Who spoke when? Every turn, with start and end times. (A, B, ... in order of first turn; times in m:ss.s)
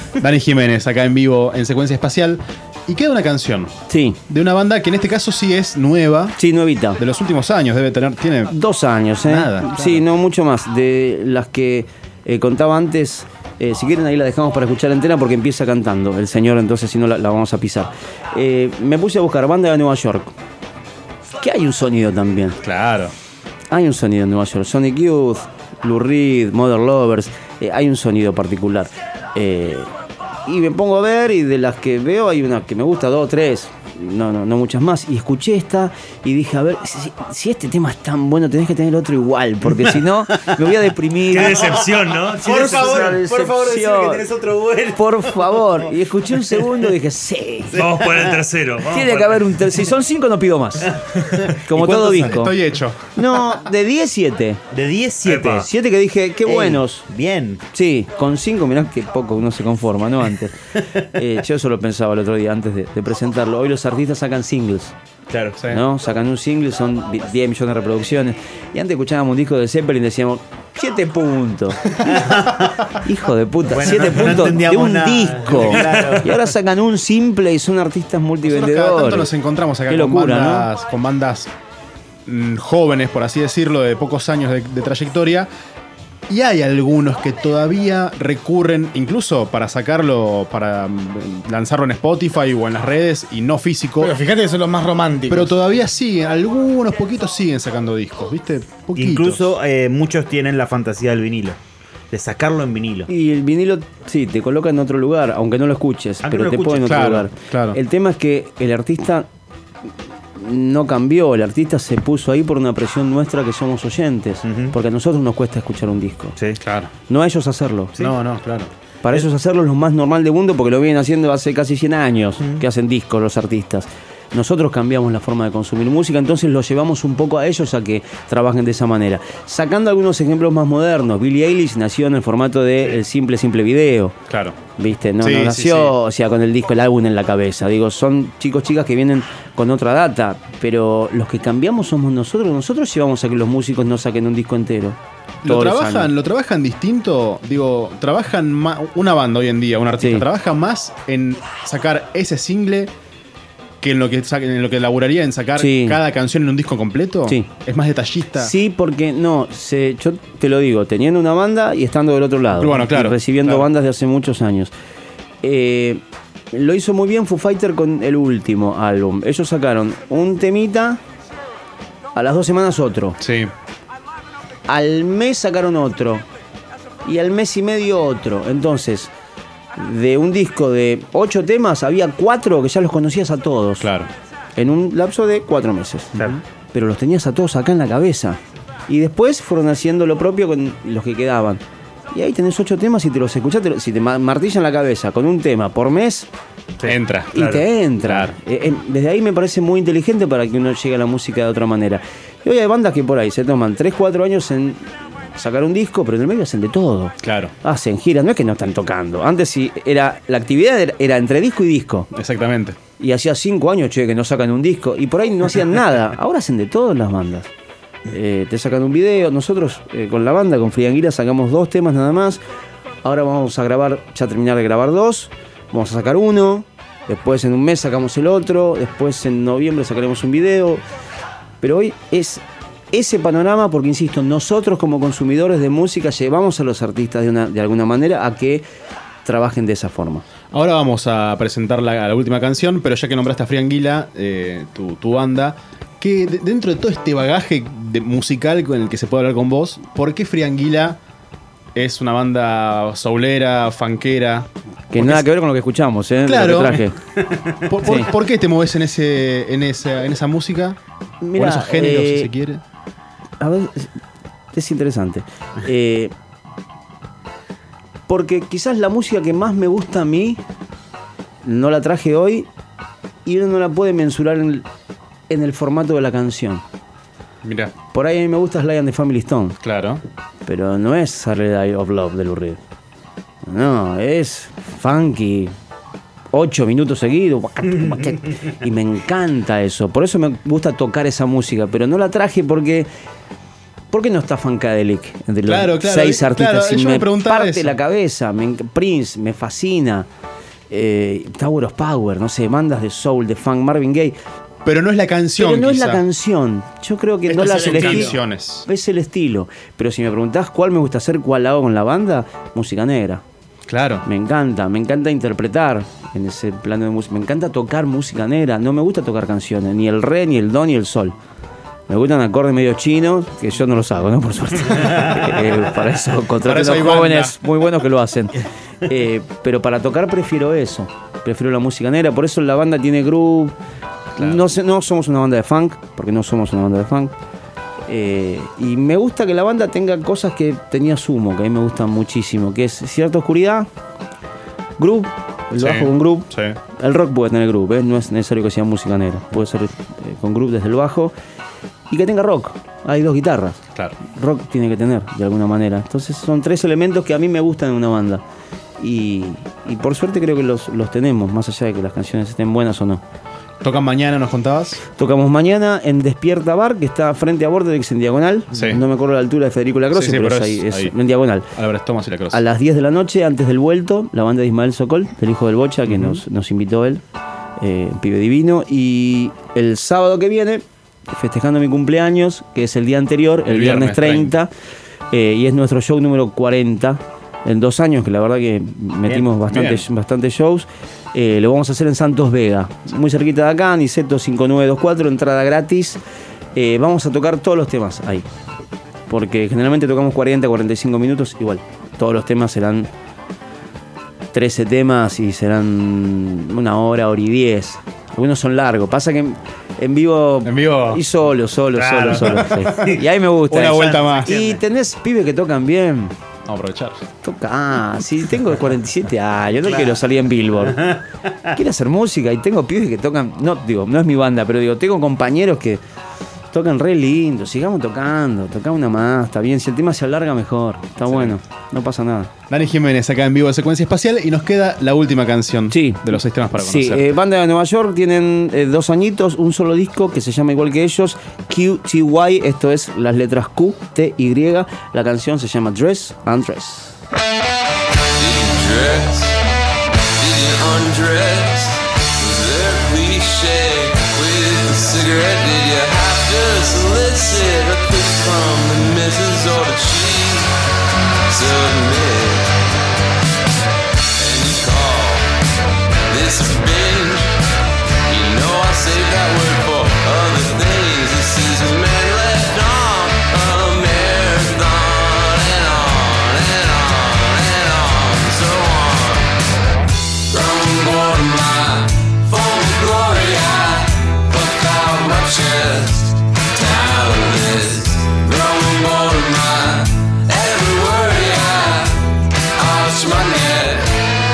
0:00.2-0:03.7 A
0:03.9-0:04.2 B
0:04.3-0:06.4 A
0:06.4-0:07.0 B
0:07.0-0:08.5 A
0:08.5-0:20.3 B
0:09.2-0:10.0 A
0:21.4-0:22.6 B
0:22.6-0:23.1 A
0:23.7-0:29.9 B
0:30.4-0:41.8 B
0:41.3-0:43.1 C
0:41.4-0:45.8 D
0:42.4-0:44.2 B
0:44.9-0:47.8 B
0:46.4-0:46.7 D
0:47.7-0:48.4 D
0:47.7-0:49.4 C
0:48.9-0:50.9 B
0:51.3-0:52.3 D
0:51.6-0:52.6 B
0:52.2-0:53.2 A
0:53.1-0:54.6 B
0:54.7-0:55.7 D
0:55.2-0:55.6 C
0:55.4-0:57.0 B
0:56.4-0:57.6 D
0:57.7-1:04.9 B
1:05.7-1:12.4 B
1:12.1-1:12.8 D
1:12.9-1:19.3 B
1:13.7-1:16.3 D
1:18.4-1:21.5 A
1:19.9-1:20.7 B
1:22.2-1:25.5 A
1:26.3-1:34.2 A
1:34.0-1:35.6 E
1:35.3-1:39.4 A
1:39.0-1:41.6 D
1:42.1-1:43.1 D
1:43.1-1:49.3 B
1:46.2-1:47.0 D
1:46.8-1:47.8 A
1:50.4-1:56.3 B
1:54.4-1:54.7 D
1:56.6-1:56.9 A
1:57.1-1:57.9 B
1:58.0-1:58.7 A
1:59.0-2:14.2 B
2:14.3-2:14.6 A
2:14.8-2:26.1 B
2:15.2-2:15.9 A
2:25.4-2:32.9 A
2:30.0-2:30.2 B
2:33.8-2:38.5 A
2:35.6-2:36.0 B
2:38.4-2:44.7 B
2:42.5-2:43.7 A
2:45.4-2:51.0 B
2:52.1-2:53.2 B
2:53.2-2:53.5 A
2:54.7-2:56.2 B
2:57.0-2:59.1 B
2:59.8-3:03.9 B
3:03.8-3:04.1 A
3:04.6-3:11.6 B
3:12.1-3:16.3 B
3:16.8-3:18.3 A
3:17.3-3:32.1 B
3:27.2-3:27.5 A
3:32.1-3:32.8 A
3:33.0-3:37.5 B
3:38.1-3:42.4 B
3:43.0-3:50.8 B
3:51.6-3:58.6 B
3:59.2-4:00.2 B
4:00.5-4:11.0 A
4:11.7-4:15.2 A
4:14.9-4:17.0 B
4:16.2-4:16.8 A
4:17.6-4:20.8 A
4:17.8-4:18.1 B
4:21.2-4:22.3 B
4:21.3-4:22.6 A
4:23.4-4:23.9 B
4:24.5-4:26.1 B
4:28.1-4:30.4 B
4:31.4-4:32.5 B
4:33.2-4:34.6 B
4:35.3-4:36.6 B
4:37.4-4:37.7 A
4:37.9-4:39.6 B
4:39.6-4:40.0 A
4:40.4-4:42.6 B
4:43.4-4:45.5 B
4:46.3-4:52.9 B
4:53.9-5:00.1 B
4:55.4-4:57.7 A
5:00.7-5:04.2 B
5:04.6-5:06.0 A
5:05.4-5:08.1 B
5:07.3-5:08.6 A
5:07.4-5:08.1 E
5:08.6-5:13.2 B
5:13.7-5:14.0 A
5:14.0-5:21.1 B
5:21.9-5:33.5 B
5:26.4-5:27.4 A
5:34.2-5:34.4 A
5:34.2-5:37.1 B
5:37.9-5:43.7 B
5:44.8-5:51.1 B
5:45.6-5:46.6 A
5:51.9-5:58.2 B
5:58.8-6:03.0 B
6:03.6-6:04.8 A
6:05.0-6:11.4 B
6:08.5-6:08.8 A
6:09.9-6:10.9 A
6:11.5-6:12.4 A
6:12.3-6:17.0 B
6:15.9-6:16.2 A
6:17.6-6:24.5 B
6:23.4-6:24.3 A
6:25.1-6:36.0 B
6:29.3-6:29.8 A
6:36.5-6:38.2 B
6:39.1-6:42.9 B
6:44.3-6:56.1 B
6:50.4-6:51.0 A
6:51.7-6:53.0 D
6:52.0-6:52.9 A
6:53.5-6:54.3 A
6:53.6-6:54.6 D
6:56.4-6:57.0 A
6:57.2-7:01.0 B
7:01.5-7:05.8 B
7:06.5-7:12.3 B
7:11.0-7:11.4 A
7:12.5-7:17.1 A
7:15.7-7:26.9 B
7:28.2-7:29.4 F
7:30.2-7:40.5 F
7:41.3-7:42.5 F
7:44.2-7:45.3 F
7:46.1-7:47.3 F
7:48.1-7:59.3 F
8:00.3-8:14.0 F